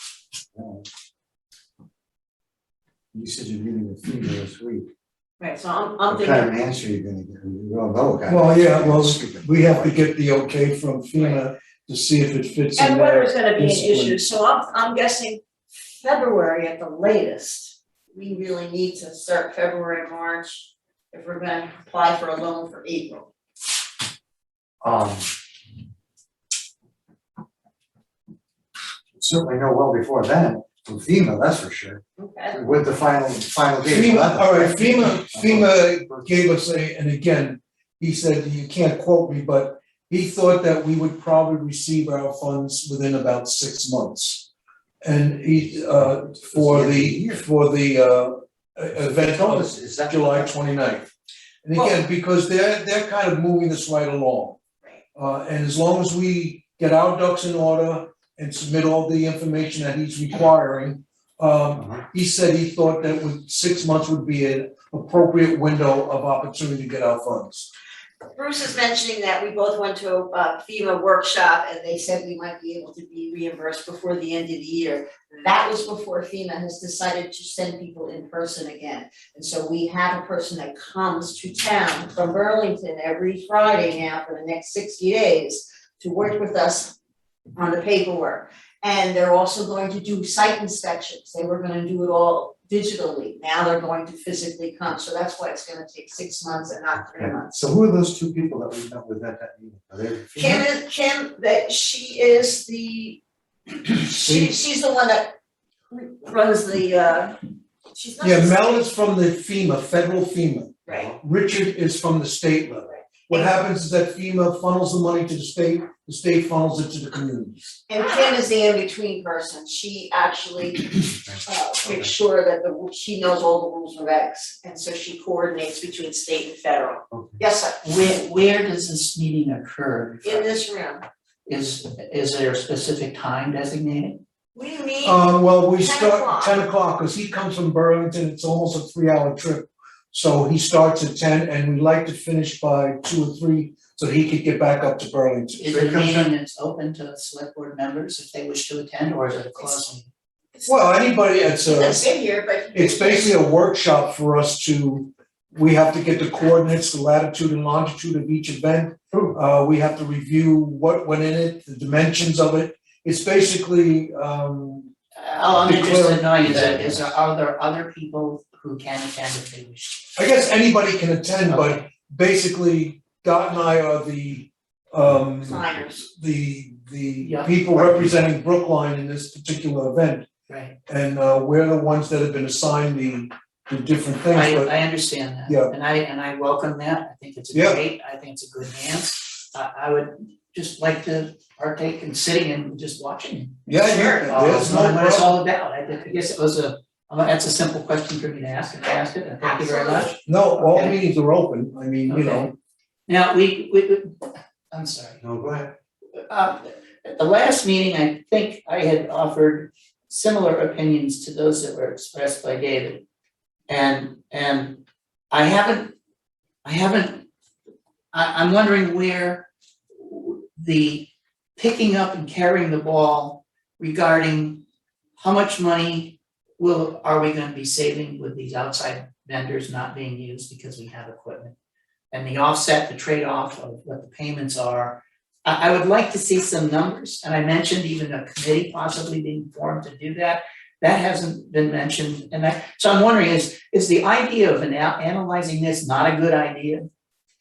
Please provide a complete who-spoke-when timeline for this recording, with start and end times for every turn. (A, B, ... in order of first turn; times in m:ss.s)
0:00.5-0:00.8 A
0:03.1-0:04.9 A
0:05.4-0:06.5 B
0:06.1-0:10.0 A
0:08.3-0:14.2 C
0:12.8-0:15.4 B
0:16.0-0:23.3 B
0:24.8-0:25.3 A
0:29.1-0:32.0 A
0:32.2-0:32.6 B
0:32.5-0:36.3 A
0:33.8-0:44.5 C
0:45.0-0:51.1 C
0:46.4-0:47.4 A
0:49.2-0:50.5 A
0:51.6-0:54.6 C
0:55.1-1:07.7 C
1:08.3-1:27.0 B
1:27.6-1:37.7 B
1:37.1-1:40.6 A
1:40.4-1:45.3 B
1:44.2-1:44.6 C
1:45.9-1:47.4 B
1:47.9-1:48.8 B
1:48.2-1:57.8 C
1:50.9-1:51.1 B
1:57.9-2:07.8 B
2:01.3-2:02.1 A
2:07.1-2:07.4 A
2:07.8-2:10.5 D
2:10.2-2:11.0 B
2:11.4-2:14.2 D
2:14.5-2:16.6 B
2:15.0-2:26.2 C
2:25.6-2:30.1 D
2:30.7-2:32.0 C
2:31.7-2:33.3 B
2:32.7-2:44.9 C
2:45.2-2:50.1 D
2:45.5-2:47.0 C
2:46.4-2:47.0 A
2:50.2-3:00.3 C
2:51.4-2:51.8 D
2:55.4-2:56.0 B
2:57.2-2:57.9 D
3:00.5-3:00.8 D
3:00.9-3:04.7 C
3:04.3-3:21.0 D
3:05.4-3:05.7 C
3:07.5-3:07.8 C
3:13.7-3:15.4 C
3:13.8-3:14.3 B
3:19.4-3:20.1 B
3:20.2-3:22.5 C
3:22.1-3:22.5 D
3:23.1-3:25.2 D
3:25.2-3:25.7 A
3:26.3-3:33.0 D
3:33.7-3:35.9 D
3:36.6-3:37.3 D
3:38.1-3:39.5 D
3:40.0-3:44.6 D
3:45.2-3:51.5 D
3:52.1-4:06.9 D